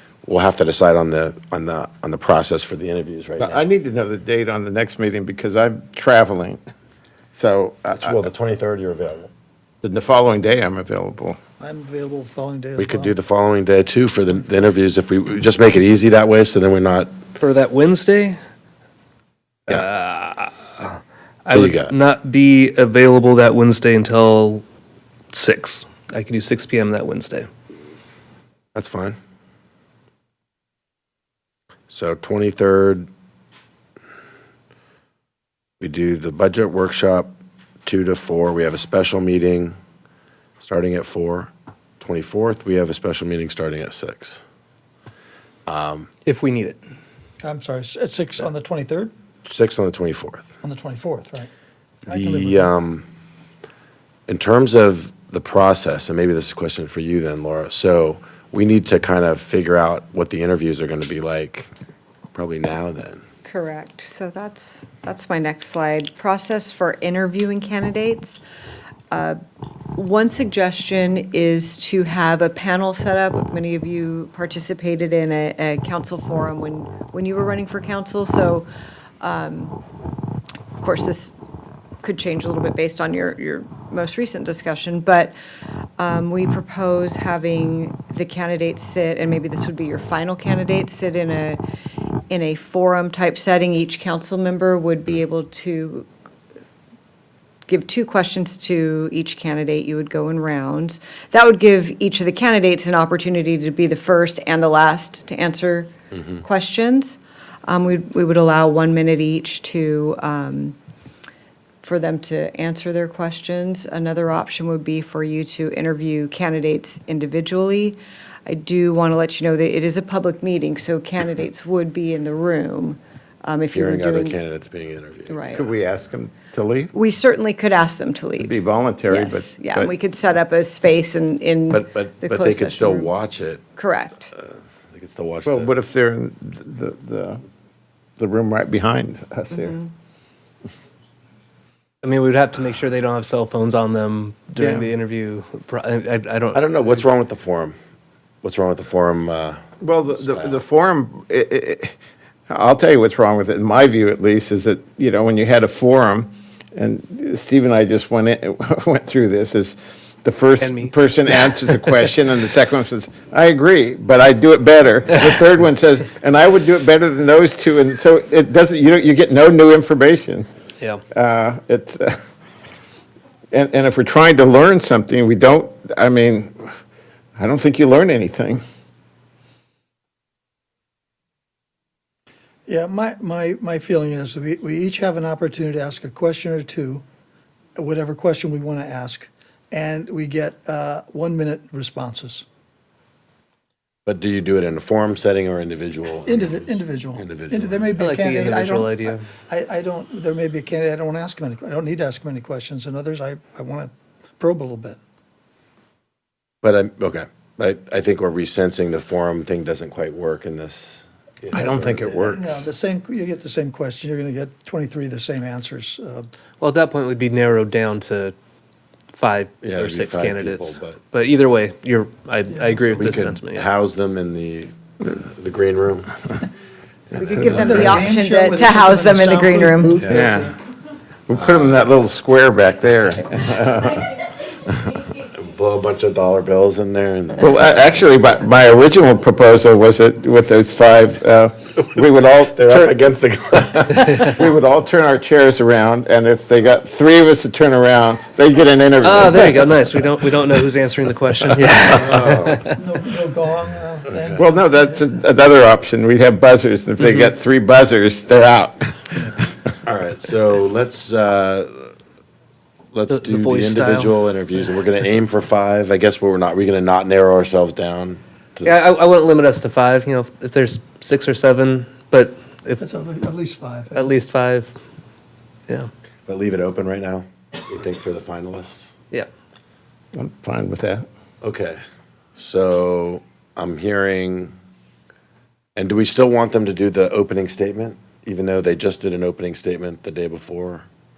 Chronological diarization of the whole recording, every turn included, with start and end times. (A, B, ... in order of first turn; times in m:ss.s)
0:00.2-0:03.7 A
0:03.4-0:06.6 B
0:07.4-0:08.2 B
0:08.0-0:09.3 A
0:09.8-0:11.4 B
0:11.6-0:13.2 C
0:12.8-0:17.1 A
0:17.4-0:18.4 D
0:19.7-0:24.6 D
0:21.5-0:21.9 A
0:25.3-0:27.5 D
0:28.8-0:29.2 A
0:31.9-0:33.1 A
0:35.8-0:37.3 A
0:37.8-0:39.8 A
0:40.6-0:44.4 A
0:45.7-0:46.1 A
0:46.2-0:46.8 D
0:47.4-0:49.1 C
0:49.5-0:50.5 A
0:50.6-0:51.5 C
0:52.0-0:52.7 C
0:52.1-0:53.0 A
0:54.3-1:01.7 A
1:02.4-1:03.2 A
1:03.4-1:08.4 E
1:09.1-1:09.4 E
1:10.0-1:18.7 E
1:19.2-1:19.8 E
1:20.8-1:21.3 E
1:22.0-1:25.3 E
1:26.0-1:31.6 E
1:32.3-1:36.1 E
1:37.7-1:45.9 E
1:46.4-1:50.8 E
1:51.8-2:04.4 E
2:03.7-2:05.6 A
2:05.3-2:05.7 E
2:05.5-2:06.9 B
2:06.9-2:13.1 E
2:08.4-2:09.9 B
2:11.7-2:13.6 A
2:13.8-2:14.3 E
2:14.4-2:15.7 A
2:15.4-2:17.4 B
2:18.2-2:19.8 B
2:19.5-2:19.9 E
2:22.0-2:26.8 D
2:24.6-2:24.9 B
2:26.5-2:27.8 A
2:28.4-2:29.6 A
2:29.8-2:32.0 B
2:30.3-2:30.5 A
2:32.5-2:50.5 B
2:40.6-2:40.9 D
2:41.5-2:41.9 D
2:51.1-2:52.2 B
2:53.5-2:56.7 B
2:57.4-2:58.6 B
3:02.7-3:07.0 C
3:07.8-3:12.5 C
3:14.1-3:17.9 A
3:16.2-3:25.0 C
3:18.0-3:19.2 D
3:26.6-3:32.6 A
3:31.5-3:32.5 B
3:31.5-3:36.3 C
3:36.6-3:38.4 D
3:39.1-3:43.7 D
3:39.6-3:41.0 A
3:42.5-3:43.1 C
3:43.0-3:46.2 A
3:47.1-3:48.1 A
3:47.2-3:50.0 E
3:47.3-3:50.5 C
3:50.0-3:50.3 A
3:50.0-3:50.5 B
3:51.3-3:54.2 B
3:55.3-3:57.8 A
3:57.4-4:03.0 B
4:02.5-4:04.3 A
4:03.8-4:09.9 B
4:09.0-4:12.8 D
4:11.9-4:12.6 A
4:12.8-4:15.0 C
4:14.1-4:14.4 A
4:14.4-4:19.3 B
4:17.0-4:17.3 D
4:19.8-4:21.9 A
4:22.9-4:28.8 A
4:23.1-4:24.2 D
4:28.6-4:32.8 D
4:32.8-4:34.2 C
4:33.9-4:34.7 D
4:36.3-4:38.9 A
4:40.1-4:41.0 B
4:41.4-4:41.8 A
4:42.4-4:44.5 A
4:45.8-4:50.8 A